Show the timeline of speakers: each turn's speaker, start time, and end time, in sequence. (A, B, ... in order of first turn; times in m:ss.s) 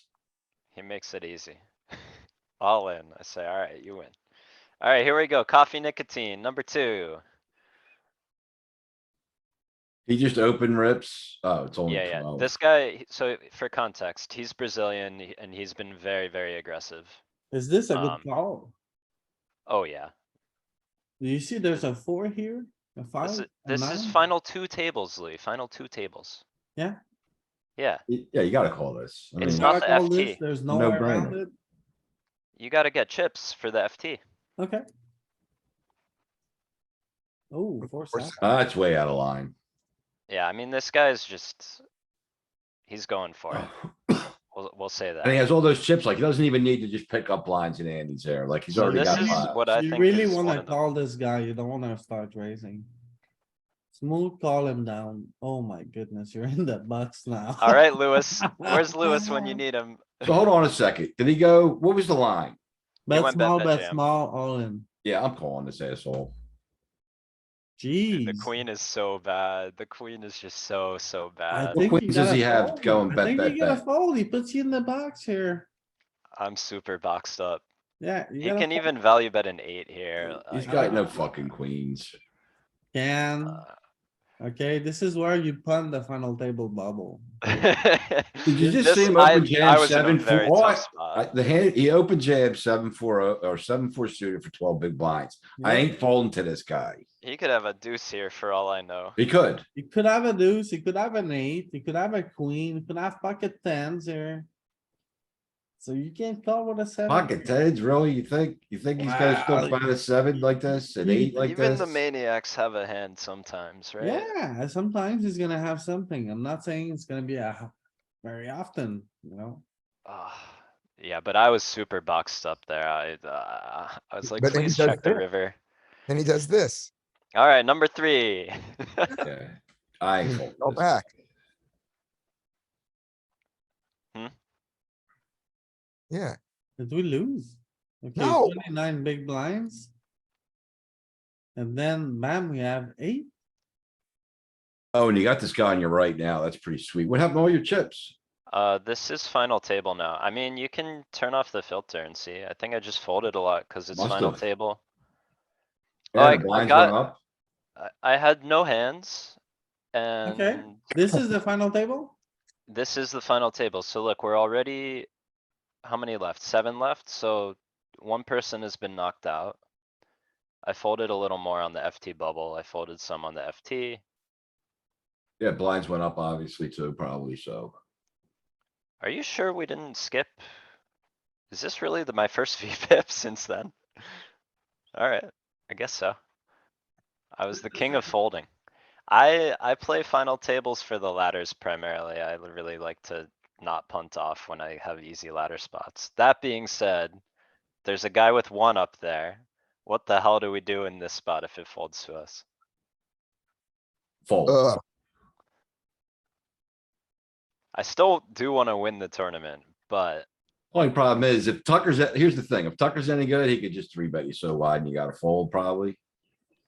0:00.7-0:04.2 A
0:04.8-0:07.2 A
0:10.1-0:12.5 B
0:11.9-0:17.2 A
0:17.5-0:18.7 C
0:17.9-0:18.3 A
0:19.7-0:20.1 A
0:21.2-0:24.2 C
0:23.2-0:26.4 A
0:27.8-0:28.0 A
0:28.1-0:29.8 B
0:29.4-0:31.5 C
0:29.4-0:30.4 A
0:30.7-0:31.4 B
0:32.6-0:34.2 A
0:37.5-0:38.4 C
0:38.1-0:38.4 D
0:38.4-0:39.5 B
0:40.3-0:41.8 A
0:42.9-0:43.7 A
0:43.5-0:44.3 B
0:44.5-0:45.4 A
0:45.2-0:49.5 B
0:48.7-0:50.8 A
0:48.8-0:52.8 C
0:53.9-0:59.6 C
0:57.6-1:00.4 A
1:00.2-1:02.6 B
1:03.1-1:04.9 C
1:03.1-1:04.0 A
1:05.0-1:06.3 B
1:07.8-1:08.5 C
1:08.1-1:11.8 A
1:11.5-1:15.7 C
1:11.7-1:13.8 B
1:16.4-1:17.6 A
1:18.0-1:18.8 C
1:18.4-1:21.2 A
1:20.5-1:22.2 B
1:20.6-1:21.2 C
1:22.9-1:23.6 C
1:23.4-1:23.7 A
1:24.4-1:27.2 C
1:27.5-1:31.3 A
1:28.5-1:37.0 B
1:28.6-1:29.2 C
1:35.6-1:36.0 C
1:37.2-1:39.2 A
1:39.2-1:39.6 B
1:39.8-1:44.5 C
1:45.8-1:47.5 C
1:47.1-1:52.0 B
1:49.0-1:51.4 C
1:51.4-1:54.3 A
1:54.0-1:59.6 C
2:00.1-2:05.6 A
2:04.2-2:05.2 D
2:06.1-2:06.9 D
2:07.4-2:09.2 A
2:09.2-2:10.9 B
2:10.2-2:11.1 D
2:16.1-2:16.4 D
2:16.8-2:19.9 C
2:18.2-2:18.6 D
2:21.6-2:23.3 C
2:24.9-2:28.2 B
2:28.5-2:34.8 A
2:33.9-2:34.4 B
2:36.1-2:37.2 B
2:36.2-2:37.0 A
2:37.8-2:39.4 A
2:39.9-2:40.9 A
2:40.3-2:42.2 C
2:42.7-2:45.1 A
2:45.8-2:49.6 A
2:50.6-2:54.0 A
2:55.4-2:57.7 B
2:59.0-3:00.4 A
3:01.5-3:04.2 A
3:05.0-3:06.2 A
3:07.4-3:08.5 A
3:09.1-3:17.2 A
3:17.8-3:22.4 A
3:24.2-3:24.6 B
3:24.5-3:24.8 D
3:27.7-3:30.3 A
3:30.7-3:36.0 B